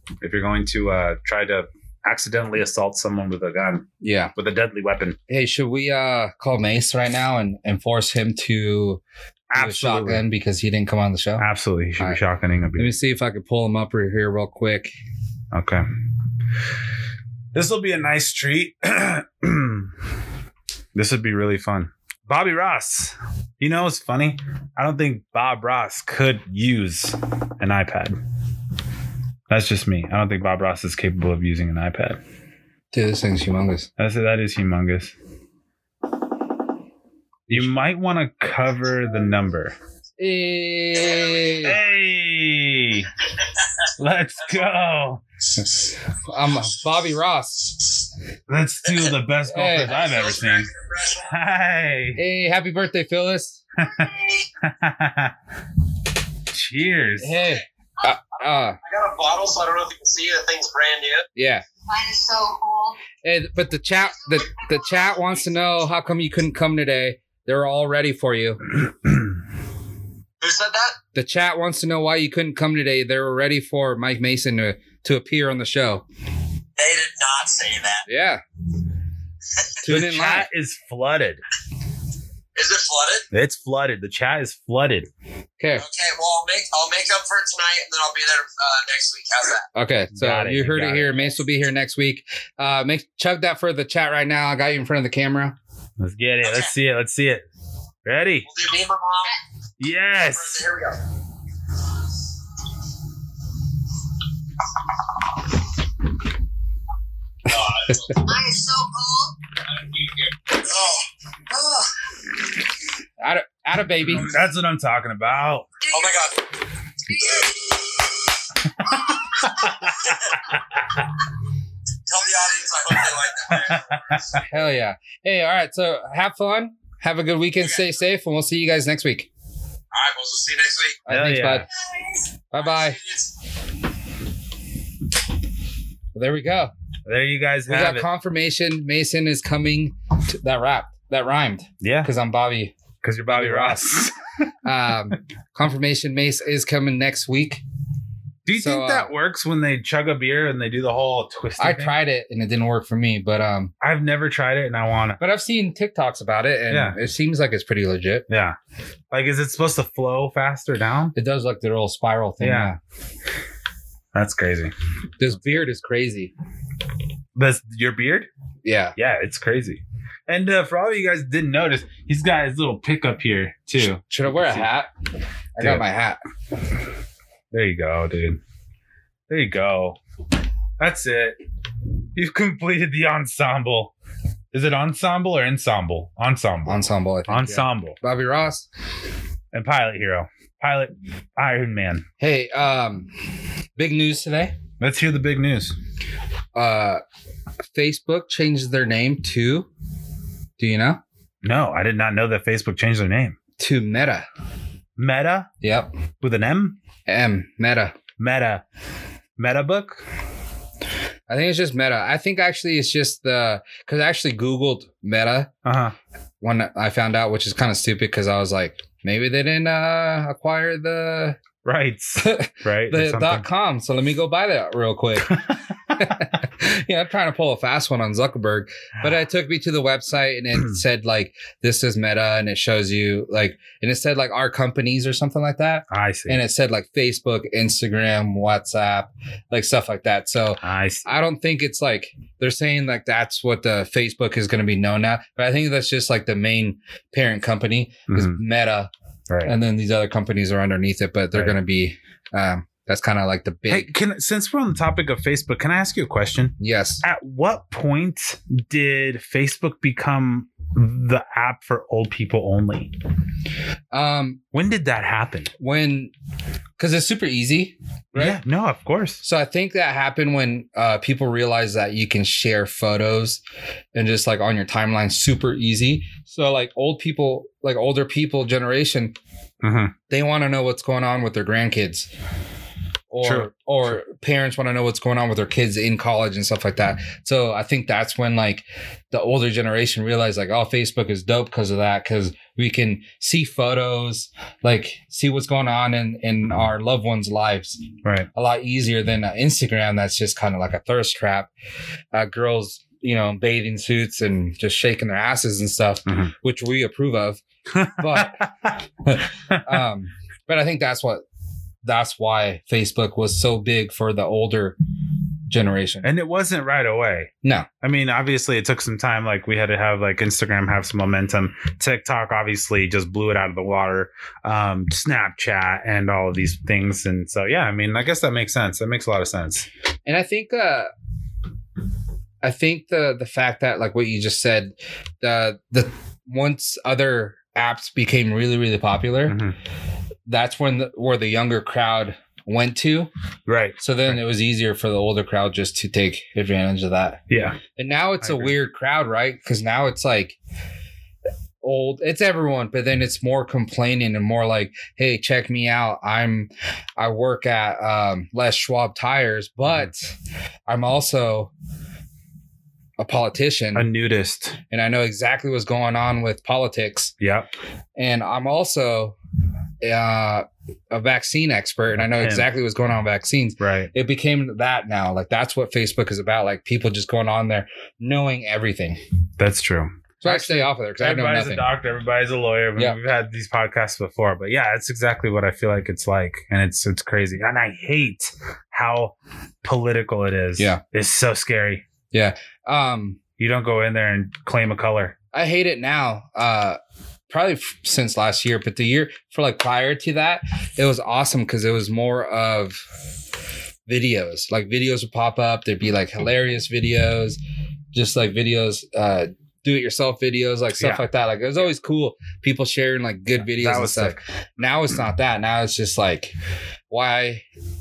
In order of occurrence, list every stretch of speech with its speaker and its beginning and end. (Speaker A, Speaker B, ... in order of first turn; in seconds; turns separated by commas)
Speaker A: 0.2-5.2, Speaker B: 4.0-4.3, Speaker B: 5.3-9.0, Speaker A: 9.5-10.2, Speaker B: 9.5-11.4, Speaker A: 11.4-12.9, Speaker B: 12.8-14.9, Speaker A: 15.5-15.8, Speaker A: 17.5-19.9, Speaker A: 20.9-28.2, Speaker A: 29.5-32.2, Speaker B: 32.9-33.9, Speaker A: 34.0-35.1, Speaker A: 37.5-39.7, Speaker B: 40.2-41.8, Speaker A: 41.6-43.1, Speaker A: 44.0-45.2, Speaker B: 46.1-48.0, Speaker A: 48.5-52.2, Speaker B: 49.5-50.0, Speaker C: 49.9-51.3, Speaker B: 52.1-53.6, Speaker A: 53.8-55.3, Speaker A: 56.5-57.5, Speaker B: 57.2-58.8, Speaker C: 58.8-61.2, Speaker B: 61.4-61.6, Speaker D: 61.9-63.0, Speaker B: 63.2-68.6, Speaker D: 64.3-65.2, Speaker C: 70.4-71.0, Speaker B: 71.1-76.0, Speaker C: 76.8-78.0, Speaker B: 78.0-78.4, Speaker B: 79.8-80.5, Speaker A: 79.8-81.4, Speaker C: 82.5-83.2, Speaker A: 83.3-85.1, Speaker B: 85.6-85.8, Speaker C: 85.8-89.7, Speaker B: 89.7-95.5, Speaker A: 90.1-91.1, Speaker A: 96.0-97.5, Speaker C: 96.4-96.7, Speaker A: 98.0-98.5, Speaker C: 98.5-99.4, Speaker A: 99.8-100.6, Speaker C: 100.3-101.0, Speaker C: 107.5-108.2, Speaker D: 108.1-109.4, Speaker C: 109.7-111.9, Speaker B: 113.2-114.3, Speaker A: 114.0-115.7, Speaker D: 115.8-116.2, Speaker C: 115.9-116.4, Speaker D: 117.1-117.5, Speaker C: 117.1-118.1, Speaker D: 119.0-119.5, Speaker A: 119.5-121.0, Speaker C: 119.9-120.4, Speaker C: 122.1-124.0, Speaker A: 123.5-124.4, Speaker B: 124.4-129.3, Speaker C: 129.9-131.0, Speaker B: 131.1-131.7, Speaker A: 131.1-131.7, Speaker B: 132.5-133.0, Speaker C: 132.6-133.3, Speaker B: 136.1-136.7, Speaker A: 137.1-138.1, Speaker B: 137.7-142.7, Speaker A: 141.8-142.1, Speaker A: 143.0-144.1, Speaker B: 143.3-144.1, Speaker B: 144.6-147.6, Speaker A: 148.4-151.9, Speaker B: 148.6-149.1, Speaker B: 151.6-153.7, Speaker A: 153.8-155.2, Speaker B: 155.2-158.2, Speaker A: 156.7-157.0, Speaker A: 158.3-158.6, Speaker A: 159.1-161.1, Speaker B: 161.1-162.8, Speaker A: 162.4-162.7, Speaker A: 164.1-164.7, Speaker B: 165.2-166.3, Speaker A: 167.3-168.3, Speaker B: 168.6-169.0, Speaker A: 168.9-174.7, Speaker B: 173.8-174.9, Speaker B: 175.6-176.2, Speaker A: 175.6-175.8, Speaker A: 177.5-178.4, Speaker A: 179.3-180.0, Speaker A: 180.8-181.4, Speaker A: 182.1-183.9, Speaker A: 184.5-188.0, Speaker B: 186.7-188.7, Speaker A: 189.5-192.0, Speaker B: 192.2-193.1, Speaker B: 193.8-194.6, Speaker A: 194.8-195.8, Speaker B: 196.5-197.0, Speaker B: 197.7-199.7, Speaker B: 200.6-201.0, Speaker A: 201.4-203.4, Speaker B: 203.6-204.2, Speaker A: 205.0-205.5, Speaker B: 205.6-205.9, Speaker A: 206.2-206.8, Speaker B: 207.1-208.0, Speaker A: 208.2-208.6, Speaker A: 209.4-210.0, Speaker B: 211.3-215.5, Speaker A: 215.6-215.9, Speaker B: 216.4-221.4, Speaker A: 221.6-223.4, Speaker B: 222.2-248.9, Speaker A: 225.2-226.1, Speaker A: 235.9-236.4, Speaker A: 240.6-241.1, Speaker A: 248.1-248.4, Speaker B: 249.4-253.9, Speaker A: 253.7-262.9, Speaker B: 256.6-257.0, Speaker B: 263.9-264.4, Speaker A: 264.5-265.5, Speaker B: 265.6-266.1, Speaker B: 266.8-268.4, Speaker A: 268.1-269.2, Speaker B: 269.2-273.4, Speaker B: 273.9-279.1, Speaker A: 279.6-279.9, Speaker B: 280.1-282.1, Speaker B: 283.1-297.8, Speaker A: 283.2-283.9, Speaker B: 298.3-301.5, Speaker B: 302.1-308.4, Speaker A: 307.7-308.8, Speaker B: 309.0-311.2, Speaker A: 309.5-309.8, Speaker B: 311.8-314.8, Speaker B: 315.5-316.1, Speaker A: 316.0-317.3, Speaker A: 317.8-329.7, Speaker B: 330.1-330.9, Speaker B: 332.4-339.4, Speaker A: 339.3-339.6, Speaker B: 340.2-343.1, Speaker A: 343.4-344.1, Speaker B: 343.8-347.2, Speaker A: 347.3-347.6, Speaker B: 347.8-350.4, Speaker A: 348.2-348.5, Speaker B: 351.6-360.1, Speaker B: 360.7-361.5, Speaker B: 363.0-363.9, Speaker A: 363.7-364.6, Speaker B: 364.7-367.1, Speaker A: 367.2-367.5, Speaker B: 367.9-369.1, Speaker B: 369.8-379.0, Speaker A: 372.0-372.5, Speaker A: 373.6-373.9, Speaker A: 379.4-391.8, Speaker B: 380.2-381.7, Speaker B: 392.1-393.2, Speaker A: 393.4-395.1, Speaker B: 395.3-402.8, Speaker B: 403.9-407.4, Speaker B: 407.9-416.3, Speaker A: 410.8-411.0, Speaker A: 413.4-414.2, Speaker B: 416.9-417.4